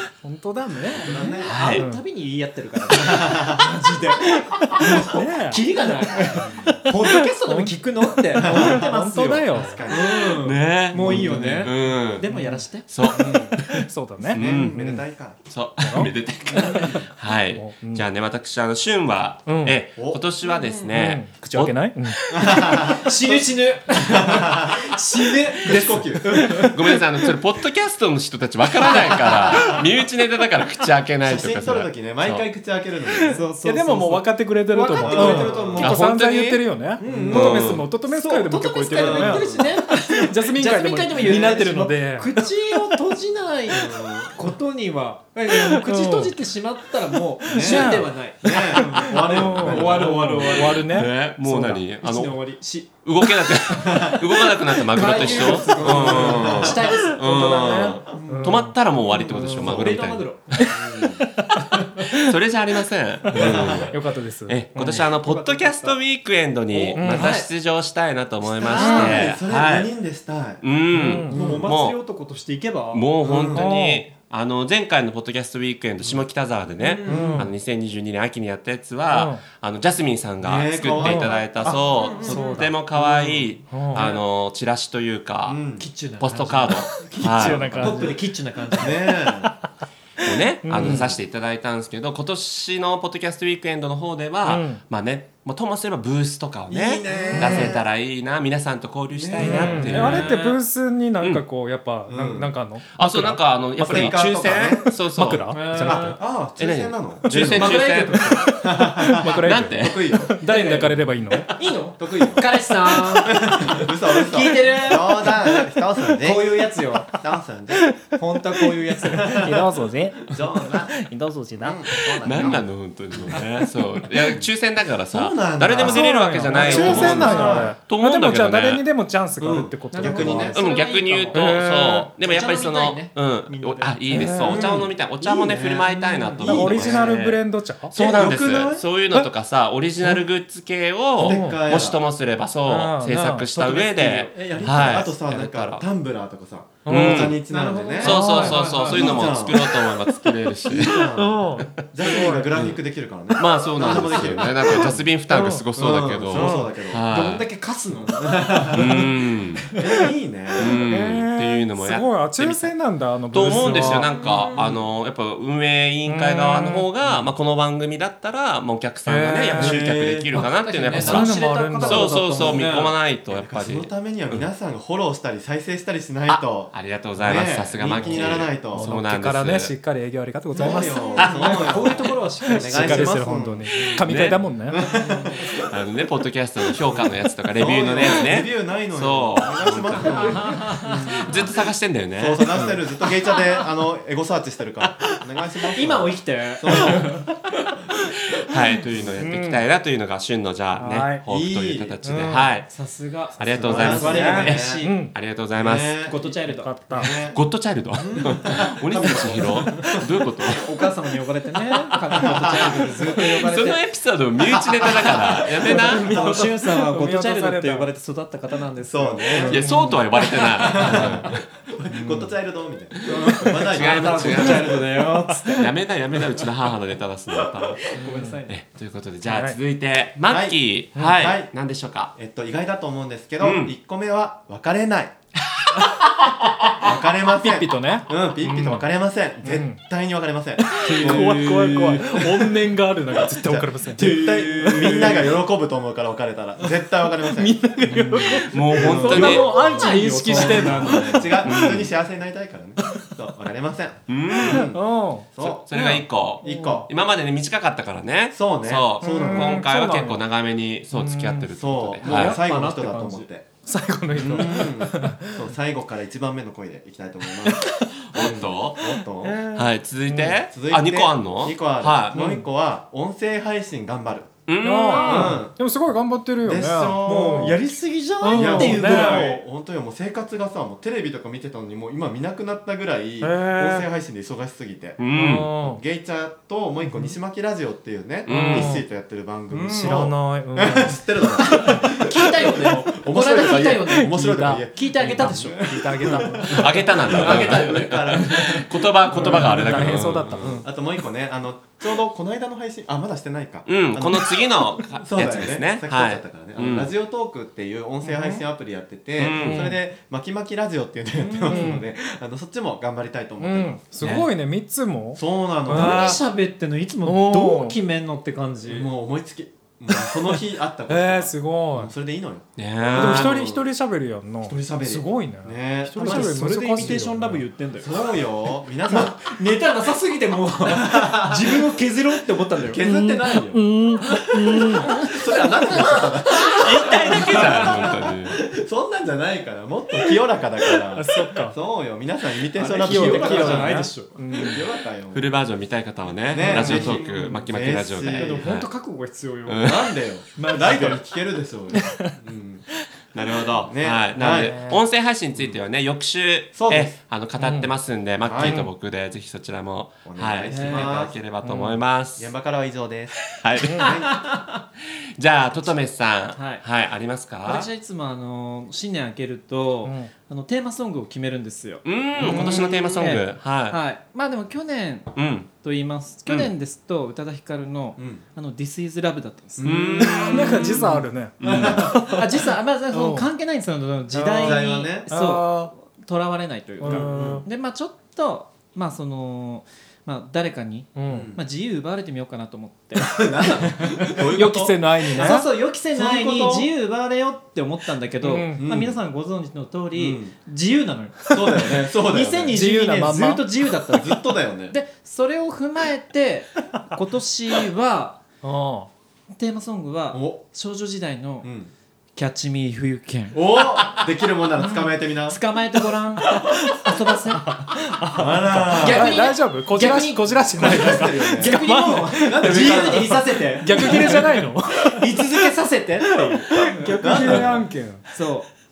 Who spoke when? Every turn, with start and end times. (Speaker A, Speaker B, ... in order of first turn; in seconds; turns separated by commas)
Speaker A: 0.2-2.0, Speaker B: 0.9-1.5, Speaker C: 1.0-12.9, Speaker D: 1.5-1.9, Speaker B: 2.9-3.7, Speaker A: 4.8-5.7, Speaker B: 6.3-6.8, Speaker A: 7.0-7.8, Speaker A: 8.3-9.8, Speaker B: 8.4-8.9, Speaker B: 9.5-10.1, Speaker D: 9.9-12.3, Speaker B: 10.9-11.7, Speaker A: 11.1-11.6, Speaker A: 12.3-12.7, Speaker D: 12.9-14.8, Speaker B: 13.1-13.6, Speaker A: 13.8-15.1, Speaker B: 14.2-15.4, Speaker D: 15.4-21.8, Speaker A: 15.8-16.8, Speaker B: 16.5-17.0, Speaker A: 17.4-18.1, Speaker A: 19.5-19.8, Speaker B: 20.0-20.2, Speaker C: 20.4-20.9, Speaker A: 20.9-22.9, Speaker B: 22.3-24.8, Speaker C: 22.6-26.9, Speaker B: 25.6-26.5, Speaker D: 26.7-32.5, Speaker B: 29.2-29.8, Speaker B: 31.2-33.4, Speaker A: 33.1-42.4, Speaker C: 33.3-35.9, Speaker B: 35.0-36.0, Speaker D: 35.7-36.8, Speaker C: 37.0-51.0, Speaker B: 37.0-37.6, Speaker D: 37.3-37.9, Speaker B: 38.9-39.8, Speaker B: 41.1-41.6, Speaker B: 43.7-44.4, Speaker A: 45.7-46.3, Speaker B: 47.5-50.4, Speaker A: 47.6-51.9, Speaker D: 50.3-60.3, Speaker C: 52.0-53.9, Speaker B: 53.8-54.2, Speaker B: 55.0-56.8, Speaker C: 55.0-57.5, Speaker A: 56.9-58.8, Speaker C: 58.1-58.5, Speaker B: 58.2-58.5, Speaker C: 59.1-60.6, Speaker B: 59.3-59.8, Speaker B: 60.6-61.2, Speaker D: 62.1-69.9, Speaker A: 63.3-65.1, Speaker B: 63.3-64.0, Speaker C: 64.8-66.0, Speaker C: 66.7-67.5, Speaker A: 66.9-67.3, Speaker C: 68.6-69.3, Speaker B: 68.6-70.6, Speaker A: 68.8-69.2, Speaker D: 70.6-72.0, Speaker A: 70.9-71.4, Speaker C: 71.1-73.4, Speaker B: 71.2-71.7, Speaker D: 72.9-85.6, Speaker B: 73.2-73.7, Speaker A: 73.5-74.1, Speaker C: 76.8-77.4, Speaker B: 77.0-77.5, Speaker A: 77.1-77.4, Speaker A: 79.1-79.5, Speaker B: 80.4-82.3, Speaker A: 80.9-81.7, Speaker C: 81.7-82.7, Speaker A: 82.2-82.7, Speaker B: 82.9-84.2, Speaker A: 83.7-84.0, Speaker B: 85.5-85.9, Speaker C: 85.7-89.0, Speaker D: 86.2-87.8, Speaker A: 87.2-88.1, Speaker B: 87.7-88.2, Speaker B: 88.8-89.5, Speaker D: 90.2-100.4, Speaker A: 90.6-91.2, Speaker A: 94.5-94.8, Speaker B: 96.7-97.8, Speaker C: 97.1-97.4, Speaker A: 97.3-97.8, Speaker B: 99.1-100.2, Speaker A: 99.4-104.2, Speaker C: 99.8-100.6, Speaker D: 101.2-101.5, Speaker B: 102.1-102.6, Speaker D: 102.9-105.5, Speaker B: 103.8-104.9, Speaker A: 104.9-106.2, Speaker C: 105.5-106.2, Speaker B: 105.8-107.9, Speaker D: 106.6-108.3, Speaker A: 107.3-111.5, Speaker C: 107.5-108.6, Speaker B: 108.6-110.4, Speaker D: 109.4-110.0, Speaker C: 110.3-117.2, Speaker B: 112.0-112.5, Speaker B: 113.3-116.6, Speaker B: 117.2-118.0, Speaker C: 118.0-119.8, Speaker B: 119.1-119.7, Speaker A: 119.1-121.9, Speaker B: 120.2-121.0, Speaker B: 121.6-122.8, Speaker D: 122.2-128.9, Speaker B: 125.1-127.8, Speaker A: 125.8-130.6, Speaker C: 127.0-127.7, Speaker B: 129.4-130.6, Speaker C: 129.9-134.7, Speaker D: 130.4-145.8, Speaker A: 131.3-132.1, Speaker A: 134.1-134.6, Speaker B: 134.4-137.1, Speaker A: 136.4-137.9, Speaker B: 137.9-138.8, Speaker B: 141.2-142.0, Speaker A: 141.2-141.6, Speaker A: 142.7-143.8, Speaker B: 143.7-157.0, Speaker A: 146.8-147.4, Speaker D: 146.9-147.4, Speaker C: 147.4-149.5, Speaker D: 148.0-151.1, Speaker A: 148.1-148.6, Speaker A: 151.0-152.6, Speaker D: 151.6-157.5, Speaker C: 153.9-154.3, Speaker A: 155.3-155.6, Speaker A: 156.3-156.7, Speaker C: 156.6-159.1, Speaker B: 158.1-158.8, Speaker D: 158.7-159.6, Speaker B: 159.8-160.8, Speaker D: 160.6-174.5, Speaker A: 160.9-164.1, Speaker B: 163.4-164.7, Speaker C: 164.0-164.8, Speaker A: 166.1-166.9, Speaker A: 169.1-169.8, Speaker B: 169.6-170.5, Speaker C: 170.3-173.0, Speaker A: 170.9-172.6, Speaker B: 173.3-178.9, Speaker D: 176.3-179.8, Speaker A: 178.7-181.8, Speaker B: 180.5-185.5, Speaker C: 180.6-183.2, Speaker D: 181.2-182.4, Speaker A: 182.5-184.8, Speaker D: 183.8-184.4, Speaker C: 184.9-185.6, Speaker D: 185.7-192.8, Speaker B: 186.9-191.6, Speaker C: 190.1-191.1, Speaker B: 192.2-197.2, Speaker C: 195.7-197.3, Speaker D: 196.7-197.0, Speaker D: 198.4-202.7, Speaker A: 199.2-199.7, Speaker A: 200.8-201.3, Speaker B: 201.3-202.0, Speaker A: 202.0-202.6, Speaker C: 202.7-205.1, Speaker D: 203.3-206.1, Speaker B: 203.5-204.9, Speaker A: 204.1-205.2, Speaker B: 205.5-206.3, Speaker C: 206.0-207.1, Speaker A: 206.4-207.2, Speaker B: 206.9-207.4, Speaker D: 207.2-210.7, Speaker B: 207.9-210.0, Speaker C: 209.7-210.0, Speaker C: 210.6-213.9, Speaker B: 212.2-213.1, Speaker D: 213.2-216.2, Speaker B: 214.7-215.4, Speaker A: 215.8-217.9, Speaker C: 216.0-219.7, Speaker B: 216.1-216.4, Speaker B: 218.8-219.9, Speaker A: 219.3-220.2, Speaker D: 219.5-221.4, Speaker B: 220.6-224.9, Speaker A: 221.0-221.3, Speaker D: 222.1-222.3, Speaker C: 223.1-226.5, Speaker D: 223.7-224.8, Speaker D: 225.6-227.8, Speaker C: 227.8-228.7, Speaker A: 228.0-228.4, Speaker D: 228.5-232.1, Speaker A: 229.3-229.6, Speaker B: 230.2-231.5, Speaker A: 230.9-231.2, Speaker B: 232.1-235.2, Speaker D: 233.4-233.7, Speaker B: 236.8-255.8, Speaker A: 237.3-239.8, Speaker A: 240.6-245.0, Speaker C: 240.8-242.0, Speaker C: 244.0-245.4, Speaker A: 247.3-251.8, Speaker C: 247.9-248.2, Speaker D: 248.3-249.6, Speaker C: 249.4-251.3, Speaker D: 250.7-251.9, Speaker D: 254.1-254.7, Speaker A: 254.5-256.8, Speaker D: 255.4-262.4, Speaker B: 256.4-256.9, Speaker B: 258.3-259.6, Speaker A: 259.0-260.2, Speaker A: 260.9-262.4, Speaker B: 261.6-263.5, Speaker C: 262.1-263.3, Speaker A: 263.6-265.3, Speaker B: 264.1-269.4, Speaker A: 267.4-267.7, Speaker D: 268.1-268.9, Speaker A: 269.2-270.4, Speaker D: 269.5-272.3, Speaker B: 270.4-274.3, Speaker A: 272.1-272.5, Speaker D: 274.5-275.4, Speaker A: 274.6-277.6, Speaker C: 274.9-275.4, Speaker B: 275.0-275.6, Speaker B: 276.4-277.6, Speaker C: 277.0-279.4, Speaker A: 278.2-279.3, Speaker B: 278.3-285.0, Speaker A: 283.2-283.9, Speaker D: 285.0-285.6, Speaker A: 285.1-285.8, Speaker B: 285.5-313.9, Speaker A: 286.8-287.1, Speaker D: 288.2-288.6, Speaker A: 288.3-288.9, Speaker C: 289.5-290.1, Speaker A: 289.7-291.9, Speaker C: 291.6-294.1, Speaker D: 293.5-293.8, Speaker A: 293.8-297.7, Speaker C: 294.7-296.5, Speaker D: 296.5-300.7, Speaker C: 297.2-298.6, Speaker A: 299.1-300.7, Speaker D: 303.7-306.9, Speaker A: 308.0-308.4, Speaker D: 309.2-309.8, Speaker A: 309.4-309.7, Speaker C: 311.1-311.8, Speaker A: 311.5-311.9, Speaker A: 313.4-316.2, Speaker D: 314.0-314.3, Speaker B: 315.1-316.2, Speaker C: 315.7-318.9, Speaker A: 317.0-317.8, Speaker B: 318.7-323.7, Speaker A: 320.0-321.9, Speaker D: 322.6-323.4, Speaker A: 322.8-327.4, Speaker B: 324.4-327.2, Speaker C: 326.0-328.0, Speaker B: 327.8-329.2, Speaker C: 328.9-332.8, Speaker B: 330.7-331.7, Speaker B: 332.6-345.3, Speaker A: 332.8-335.1, Speaker C: 336.5-338.0, Speaker D: 336.6-338.4, Speaker A: 340.9-341.6, Speaker C: 342.6-344.2, Speaker A: 342.8-344.6, Speaker D: 345.1-348.7, Speaker B: 346.3-348.5, Speaker C: 346.4-347.2, Speaker A: 346.5-347.4, Speaker C: 348.1-349.7, Speaker D: 349.5-350.0, Speaker B: 349.6-352.7, Speaker C: 350.4-351.0, Speaker A: 351.7-352.1, Speaker D: 353.1-362.3, Speaker B: 353.6-354.6, Speaker A: 354.2-354.8, Speaker B: 356.5-356.9, Speaker A: 357.4-357.7, Speaker B: 358.2-358.7, Speaker B: 360.1-361.2, Speaker C: 360.5-361.1, Speaker A: 361.4-361.8, Speaker B: 362.2-364.2, Speaker D: 363.3-363.8, Speaker A: 363.6-364.0, Speaker C: 363.8-364.5, Speaker D: 365.2-367.7, Speaker C: 366.4-366.6, Speaker C: 367.4-379.8, Speaker A: 369.8-370.1, Speaker D: 371.8-373.8, Speaker B: 372.2-373.0, Speaker D: 375.1-375.5, Speaker B: 378.0-378.2, Speaker B: 379.6-380.9, Speaker D: 379.6-381.9, Speaker A: 380.0-382.3, Speaker C: 380.4-380.7, Speaker B: 381.4-382.0, Speaker C: 381.9-394.0, Speaker A: 382.9-383.3, Speaker B: 384.3-385.1, Speaker A: 384.3-385.7, Speaker A: 386.8-387.5, Speaker B: 386.8-387.4, Speaker A: 390.9-391.3, Speaker B: 391.1-391.4, Speaker B: 392.9-395.3, Speaker A: 394.3-395.5, Speaker C: 395.1-408.2, Speaker B: 395.9-396.7, Speaker A: 398.2-398.6, Speaker B: 398.6-399.0, Speaker B: 399.9-400.3, Speaker B: 401.3-402.6, Speaker A: 402.5-403.5, Speaker B: 403.9-404.8, Speaker A: 408.4-408.9, Speaker C: 409.4-411.5, Speaker B: 410.1-410.4, Speaker B: 411.4-411.7, Speaker C: 412.2-413.4, Speaker B: 413.3-415.4, Speaker C: 414.6-417.6, Speaker A: 417.4-425.3, Speaker B: 418.1-419.1, Speaker C: 418.7-427.4, Speaker B: 420.5-421.6, Speaker B: 422.2-424.2, Speaker A: 426.6-428.1, Speaker B: 426.9-427.7, Speaker C: 428.1-428.5